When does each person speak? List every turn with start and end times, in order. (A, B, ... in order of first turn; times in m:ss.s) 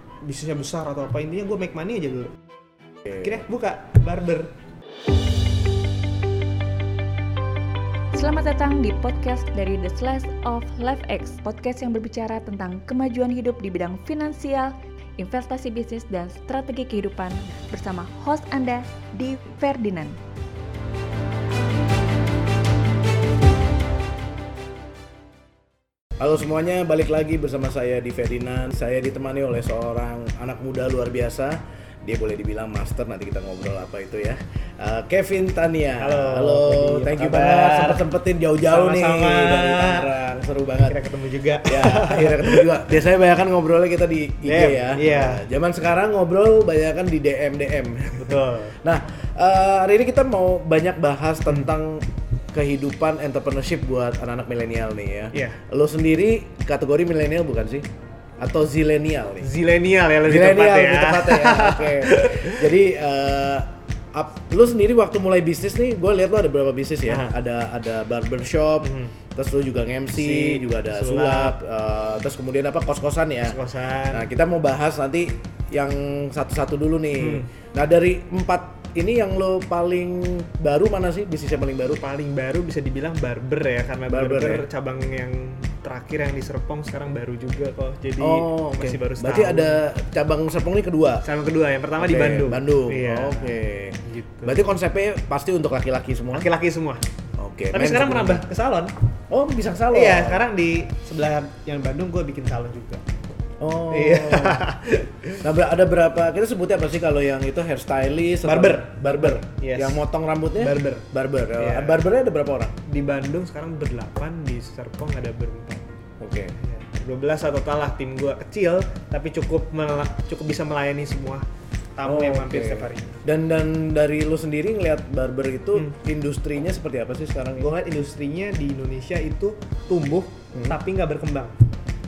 0:00.2-0:02.3 A
0:03.2-0:04.5 A
0:08.1-0:20.2 B
0:26.2-0:41.0 C
0:36.0-0:38.0 A
0:38.6-0:40.1 A
0:40.9-0:42.9 A
0:41.6-0:57.8 C
0:44.4-0:45.4 A
0:48.2-0:48.8 A
0:55.3-0:55.6 A
0:58.4-0:59.5 C
0:59.4-1:02.7 A
1:00.2-1:13.6 C
1:07.1-1:07.4 A
1:08.8-1:09.1 A
1:10.1-1:11.6 A
1:13.4-1:14.3 A
1:14.1-1:22.0 C
1:17.2-1:17.5 A
1:21.9-1:29.8 A
1:24.1-1:24.6 C
1:28.2-1:31.2 C
1:31.2-1:34.6 A
1:32.0-1:36.5 C
1:36.3-1:37.0 A
1:37.4-1:38.4 C
1:37.7-1:38.9 A
1:39.3-1:40.4 C
1:39.9-1:43.0 A
1:43.6-1:44.7 C
1:43.9-1:45.4 A
1:45.4-1:52.7 C
1:48.4-1:50.0 A
1:50.6-1:52.0 A
1:52.9-1:55.8 A
1:56.2-1:56.5 C
1:56.6-2:01.4 A
2:02.0-2:03.2 A
2:02.0-2:07.7 C
2:07.6-2:11.5 A